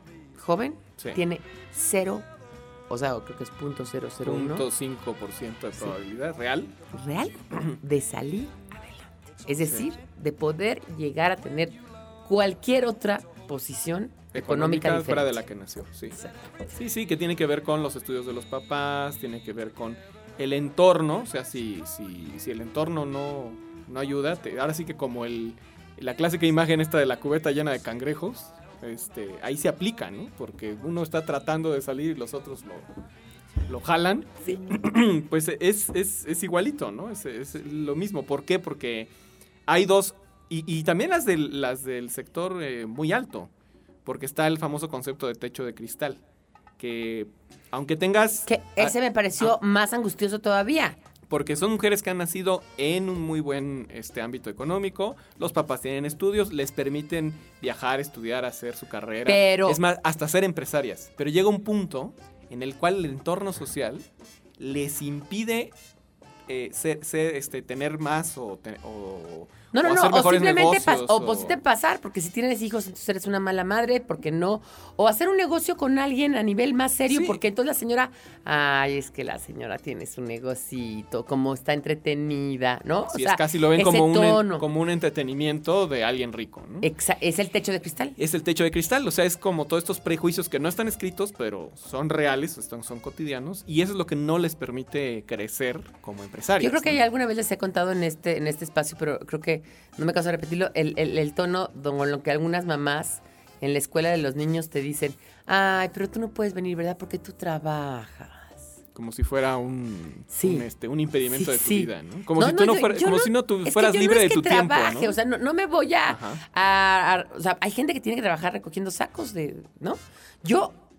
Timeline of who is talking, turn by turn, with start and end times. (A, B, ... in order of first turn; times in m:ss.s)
0:00.4-0:02.2 A
0:02.9-0:04.6 A
0:04.2-0:06.7 B
0:06.9-0:15.4 A
0:14.3-0:16.2 B
0:16.1-0:16.6 A
0:16.7-0:32.9 B
0:33.6-0:39.1 B
0:39.6-0:43.5 B
0:44.0-0:46.2 B
0:46.8-0:49.6 B
0:48.5-0:51.0 A
0:51.3-1:04.0 B
0:59.2-0:59.8 A
1:04.6-1:05.7 B
1:06.5-1:11.6 B
1:09.7-1:24.6 A
1:17.1-1:17.4 B
1:23.1-1:26.9 B
1:26.8-1:28.2 A
1:28.2-1:37.0 B
1:36.6-1:48.6 A
1:48.9-1:55.2 B
1:50.3-1:50.6 A
1:51.3-2:00.8 A
1:56.1-1:56.4 B